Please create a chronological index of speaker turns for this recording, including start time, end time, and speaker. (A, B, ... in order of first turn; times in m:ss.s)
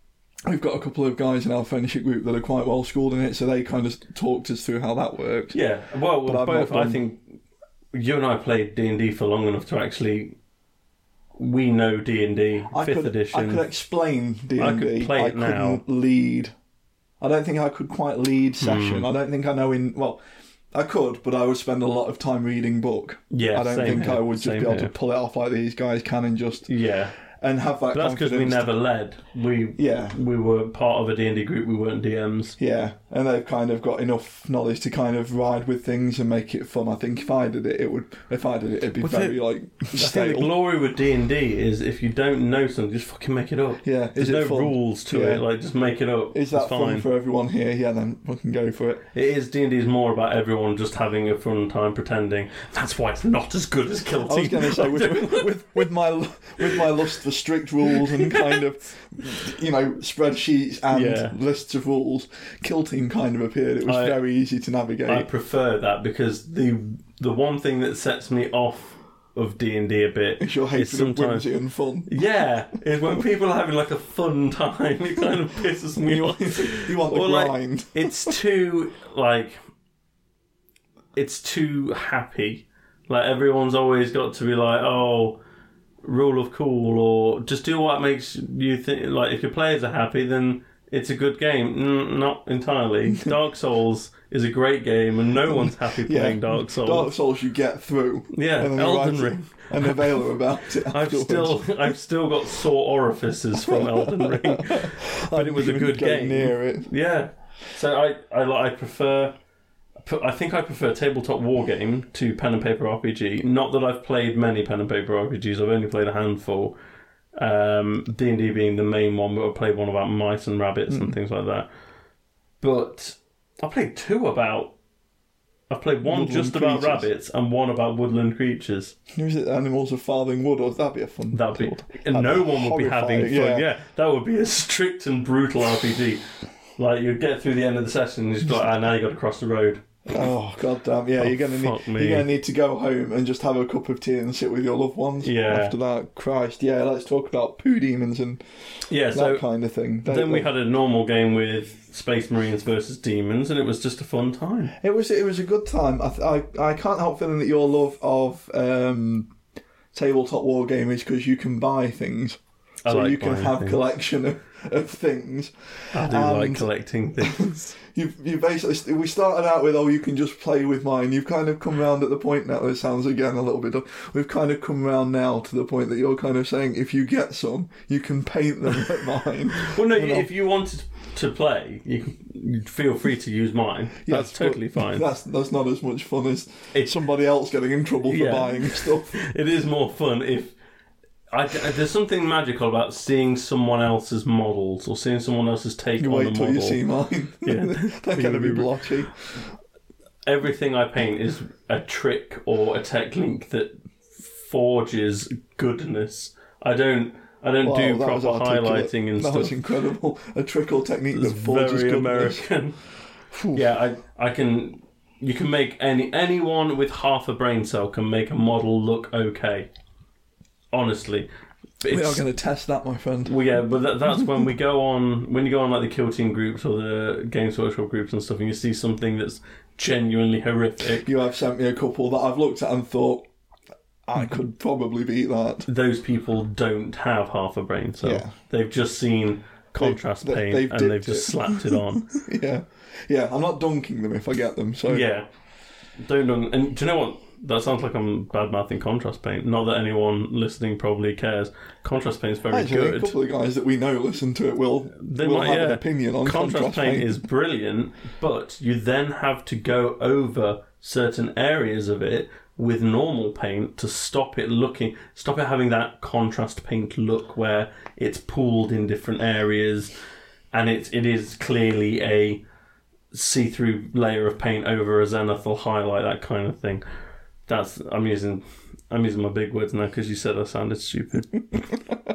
0:00.4-0:05.6 A
0:05.5-0:07.4 B
0:06.2-0:07.0 A
0:07.9-0:10.4 B
0:11.4-0:13.6 B
0:12.7-0:16.5 A
0:14.6-0:15.8 B
0:17.2-0:20.2 A
0:18.6-0:19.1 B
0:20.7-0:26.7 A
0:23.3-0:24.9 B
0:26.7-0:27.1 B
0:27.3-0:28.7 A
0:27.9-0:32.6 B
0:29.8-0:30.2 A
0:32.6-0:40.5 A
0:39.0-0:39.4 B
0:39.9-0:47.1 B
0:43.8-0:45.4 A
0:46.3-0:49.0 A
0:49.1-0:55.9 B
0:54.2-1:05.3 A
0:57.9-0:58.6 B
1:00.9-1:01.3 B
1:03.8-1:04.2 B
1:05.0-1:11.5 B
1:10.4-1:12.1 A
1:12.0-1:19.6 B
1:16.0-1:18.3 A
1:21.1-1:25.4 B
1:26.0-1:37.1 B
1:35.5-1:41.8 A
1:38.3-1:49.3 B
1:43.6-1:46.9 A
1:50.0-1:56.8 B
1:57.4-2:01.7 B
2:00.9-2:01.1 A
2:02.6-2:04.8 B
2:05.7-2:08.9 B
2:06.0-2:07.1 A
2:09.1-2:13.7 A
2:11.3-2:19.8 B
2:20.1-2:28.4 A
2:21.2-2:22.3 B
2:25.2-2:25.7 B
2:28.8-2:29.4 B
2:29.1-2:30.5 A
2:30.0-2:34.7 B
2:34.8-2:39.3 A
2:39.9-2:46.6 A
2:42.8-2:43.8 B
2:45.9-2:47.7 B
2:47.2-3:00.3 A
2:59.6-3:05.1 B
3:04.0-3:09.2 A
3:08.0-3:10.5 B
3:11.3-3:16.8 B
3:16.0-3:19.1 A
3:17.4-3:18.8 B
3:20.2-3:29.5 B
3:27.6-3:32.4 A
3:31.1-3:32.8 B
3:33.3-3:33.6 A
3:33.5-3:39.7 B
3:40.7-3:41.3 B
3:41.8-3:42.2 B
3:41.9-3:43.4 A
3:43.2-3:51.1 B
3:51.0-3:53.3 A
3:54.1-3:55.7 A
3:55.6-4:02.1 B
3:58.0-3:58.3 A
3:59.8-4:05.1 A
4:04.9-4:05.3 B
4:06.0-4:13.1 B
4:12.5-4:17.1 A
4:15.0-4:29.9 B
4:30.5-4:32.4 B
4:33.1-4:36.8 B
4:37.5-4:41.7 B